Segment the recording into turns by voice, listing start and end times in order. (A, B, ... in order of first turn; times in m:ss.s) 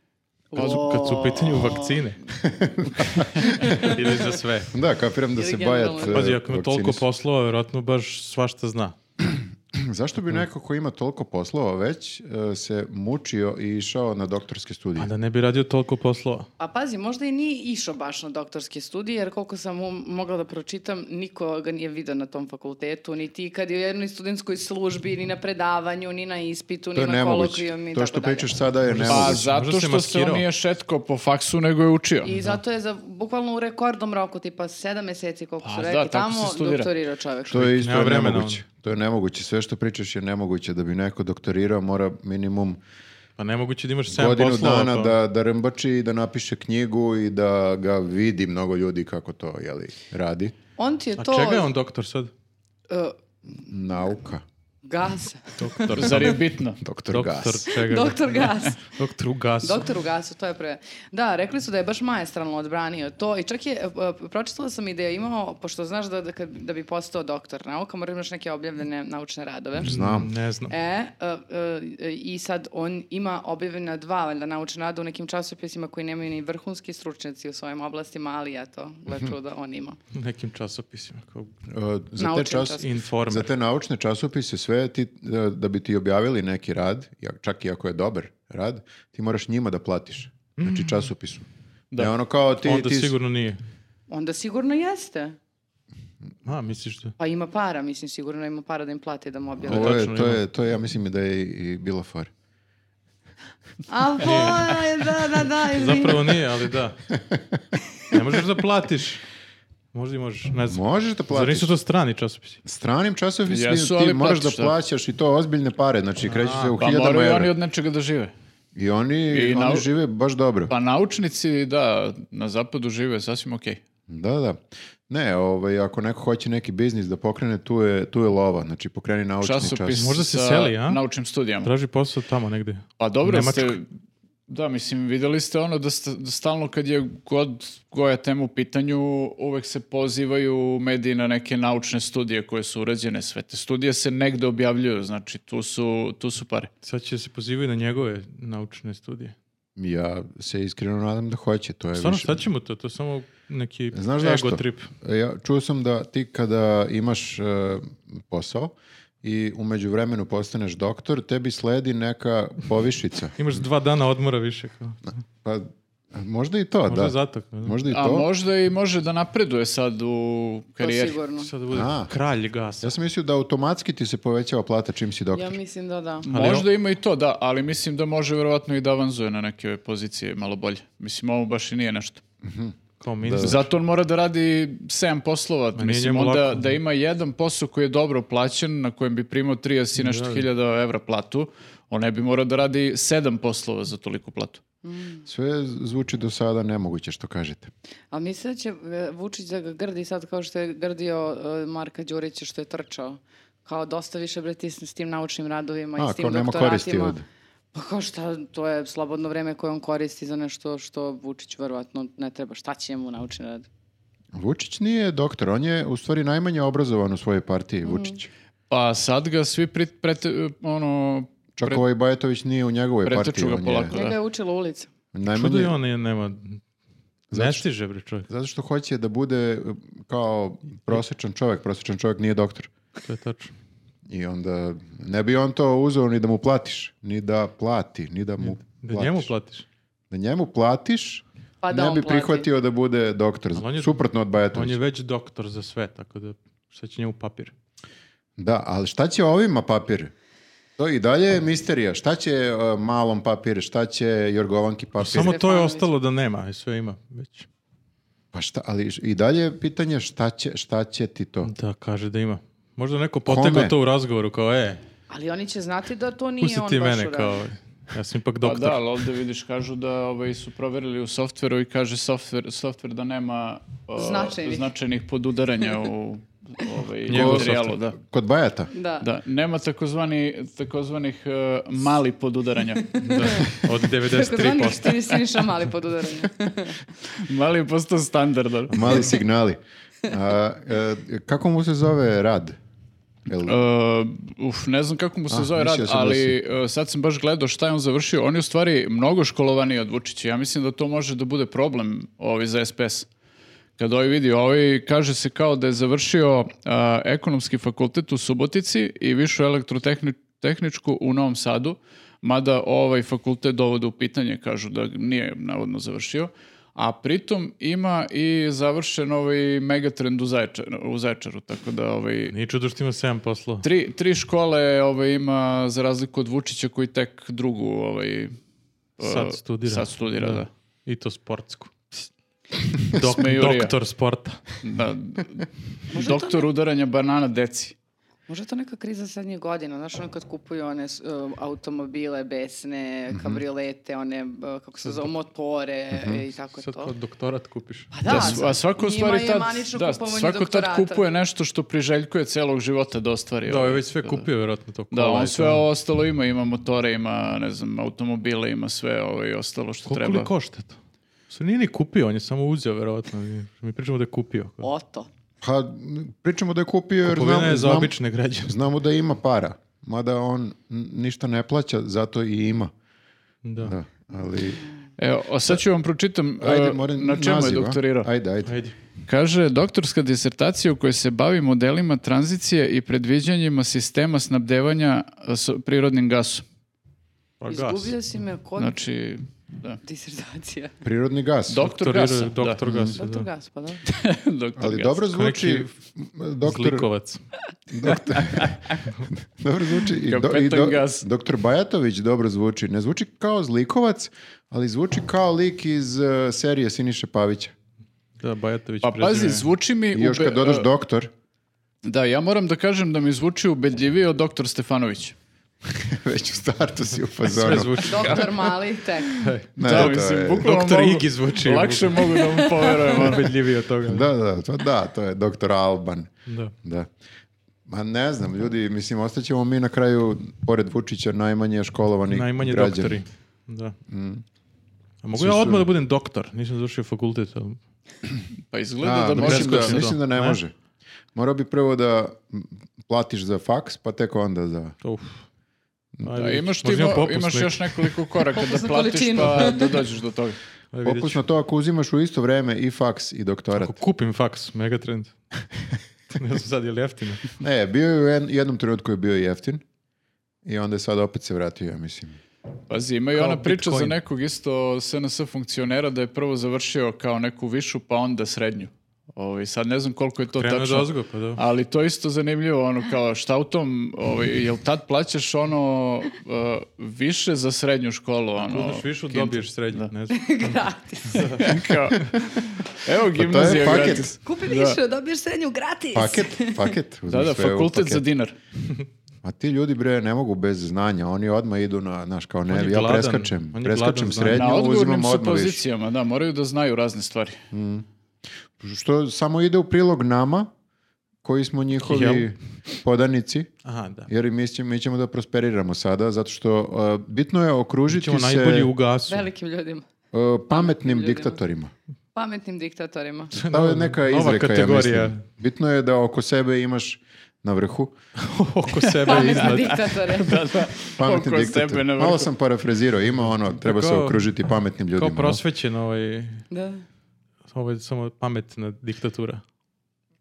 0:00.5-0:02.0 A
0:00.6-0:02.2 B
0:02.4-0:03.9 C
0:03.4-0:04.7 B
0:03.7-0:04.0 A
0:04.7-0:07.0 C
0:05.4-0:06.3 A
0:06.0-0:09.0 B
0:09.2-0:15.1 C
0:15.0-0:16.5 B
0:16.6-0:28.5 A
0:26.9-0:29.5 C
0:28.9-0:30.4 B
0:29.1-0:32.3 D
0:32.2-0:37.7 A
0:35.6-0:36.9 D
0:37.5-0:42.8 C
0:37.6-0:38.6 B
0:43.4-0:45.2 B
0:44.1-0:50.5 C
0:50.8-0:51.7 A
0:51.2-0:52.3 B
0:52.9-0:53.2 A
0:53.6-0:54.4 C
0:54.8-0:56.2 A
0:55.6-0:56.4 B
0:55.9-0:56.8 D
0:56.8-0:57.7 C
0:57.1-0:59.9 B
0:57.7-0:58.8 A
0:59.6-1:09.9 A
1:09.8-1:10.3 C
1:09.8-1:10.7 B
1:10.7-1:20.0 A
1:19.1-1:19.3 C
1:20.1-1:21.5 B
1:21.7-1:33.2 C
1:22.2-1:22.9 A
1:22.8-1:23.5 B
1:30.6-1:31.1 B
1:32.6-1:33.6 B
1:34.1-1:35.4 A
1:36.4-1:37.1 B
1:37.2-1:40.0 A
1:39.6-1:42.3 C
1:39.6-1:40.4 B
1:43.9-1:46.4 A
1:44.2-1:44.7 B
1:45.7-1:47.0 B
1:47.1-1:47.6 C
1:48.1-1:49.2 B
1:49.9-1:52.6 B
1:50.7-1:51.8 C
1:52.6-1:57.5 C
1:53.5-1:54.7 D
1:56.2-1:56.8 B
1:56.8-1:58.3 D
1:58.8-2:00.7 C
1:59.3-1:59.9 D
2:00.7-2:03.8 D
2:04.1-2:10.1 C
2:09.4-2:11.7 D
2:09.9-2:11.0 B
2:11.6-2:13.8 B
2:13.0-2:13.9 D
2:14.5-2:26.7 D
2:26.8-2:29.3 B
2:29.8-2:32.5 C
2:32.0-2:34.9 B
2:33.9-2:43.6 C
2:43.4-2:45.1 B
2:45.4-2:48.3 C
2:46.9-2:47.8 B
2:47.9-2:51.2 D
2:50.8-2:51.5 A
2:51.4-2:52.9 B
2:51.7-2:52.1 C
2:52.8-2:55.6 C
2:55.3-2:56.3 A
2:56.3-3:02.2 D
2:56.3-2:56.7 B
3:02.4-3:03.6 C
3:03.0-3:03.6 B
3:03.4-3:14.6 D
3:05.8-3:06.8 B
3:10.0-3:10.4 B
3:14.8-3:15.2 A
3:15.3-3:17.7 C
3:18.1-3:27.2 A
3:26.0-3:27.2 C
3:27.7-3:33.7 A
3:34.3-3:38.3 C
3:37.9-3:38.2 A
3:38.7-3:41.8 D
3:41.6-3:43.9 C
3:43.0-3:44.2 D
3:43.9-3:44.9 A
3:45.1-3:45.8 C
3:45.3-3:46.6 B
3:47.3-3:47.6 C
3:47.3-3:48.3 B
3:48.3-3:52.7 C
3:53.0-3:53.5 B
3:54.1-3:59.3 C
3:58.4-3:59.6 B
4:00.1-4:04.8 C
4:01.6-4:02.5 A
4:03.6-4:04.0 B
4:04.5-4:07.5 B
4:08.4-4:10.1 C
4:10.8-4:15.4 C
4:15.0-4:17.5 B
4:15.1-4:15.9 A
4:18.3-4:21.5 C
4:21.4-4:24.8 B
4:23.2-4:23.7 C
4:25.1-4:27.4 A
4:26.4-4:28.8 B
4:28.4-4:38.0 D
4:34.0-4:34.7 A
4:37.1-4:37.6 B
4:37.1-4:38.7 C
4:38.7-4:39.1 A
4:39.0-4:43.0 D
4:42.9-4:46.8 A
4:43.0-4:45.0 B
4:47.1-4:49.0 D
4:48.7-4:52.6 C
4:53.2-4:53.6 C
4:53.4-5:03.1 D
4:55.3-4:56.4 C
5:03.8-5:22.4 D
5:22.3-5:23.7 B
5:23.6-5:28.3 D
5:29.0-5:30.5 D
5:29.0-5:32.1 B
5:32.7-5:34.6 B
5:33.0-5:33.8 D
5:34.6-5:37.8 D
5:35.9-5:36.5 A
5:38.3-5:46.9 A
5:43.1-5:43.4 C
5:45.9-5:46.2 C
5:46.6-5:48.4 B
5:47.9-5:51.0 A
5:48.0-5:54.3 D
5:53.5-5:55.6 B
5:54.9-6:00.3 D
5:59.9-6:00.8 B
6:01.3-6:04.7 B
6:04.6-6:05.1 A
6:05.4-6:12.7 C
6:07.0-6:08.6 B
6:13.4-6:13.7 B
6:13.6-6:14.6 C
6:15.0-6:18.1 D
6:16.4-6:18.6 C
6:18.4-6:18.7 B
6:19.1-6:26.4 D
6:27.4-6:27.9 B
6:27.5-6:28.8 A
6:28.6-6:29.8 D
6:29.8-6:30.7 A
6:30.8-6:31.7 C
6:31.5-6:32.6 D
6:31.6-6:33.3 B
6:32.6-6:33.0 C
6:32.9-6:33.8 A
6:33.8-6:35.1 D
6:34.6-6:36.9 C
6:35.1-6:35.7 B
6:36.4-6:37.2 B
6:37.7-6:47.5 C
6:40.0-6:41.0 D
6:48.2-6:49.5 B
6:48.8-6:50.7 D
6:49.9-6:51.1 C
6:51.8-6:55.2 D
6:55.7-6:58.3 C
6:57.2-6:58.5 B
6:57.8-6:59.2 A
6:59.1-7:02.2 B
6:59.6-7:00.5 C
6:59.6-7:03.4 D
7:02.2-7:02.5 A
7:02.7-7:04.1 B
7:03.8-7:06.1 C
7:06.3-7:06.5 B
7:06.6-7:06.9 C
7:07.7-7:13.0 C
7:12.1-7:13.8 B
7:13.9-7:14.2 C
7:15.0-7:17.6 B
7:15.2-7:15.7 C
7:18.5-7:19.9 D
7:18.8-7:20.5 C
7:19.2-7:20.4 B
7:21.2-7:24.8 C
7:24.8-7:25.2 B
7:26.0-7:27.9 B
7:26.2-7:30.4 D
7:28.3-7:29.8 A
7:30.7-7:31.2 B
7:30.8-7:33.8 C
7:33.6-7:35.2 B
7:36.1-7:37.2 B
7:37.4-7:39.6 C
7:40.4-7:42.2 C
7:42.7-7:59.9 D
7:43.2-7:44.0 B
7:50.3-7:51.4 B
7:58.4-8:01.5 B
8:00.1-8:01.5 A
8:01.4-8:02.1 D
8:02.6-8:04.8 D
8:03.1-8:04.1 C
8:04.2-8:06.7 A
8:05.9-8:08.0 C
8:07.1-8:08.4 D
8:09.2-8:15.6 C
8:12.5-8:14.5 B
8:14.3-8:17.4 D
8:17.5-8:17.8 C
8:18.6-8:20.5 C
8:21.2-8:23.5 C
8:21.8-8:22.3 B
8:23.6-8:24.1 B
8:24.1-8:28.7 C
8:27.9-8:29.3 B
8:29.1-8:29.8 A
8:30.1-8:31.7 C
8:30.5-8:31.4 A
8:32.1-8:33.3 A
8:33.3-8:37.9 C
8:33.3-8:35.2 B
8:38.2-8:40.4 B
8:38.8-8:42.3 D
8:39.0-8:40.4 A
8:41.0-8:45.4 C
8:43.6-8:44.2 B
8:45.0-8:46.4 B
8:46.5-8:46.8 A
8:47.5-8:49.4 B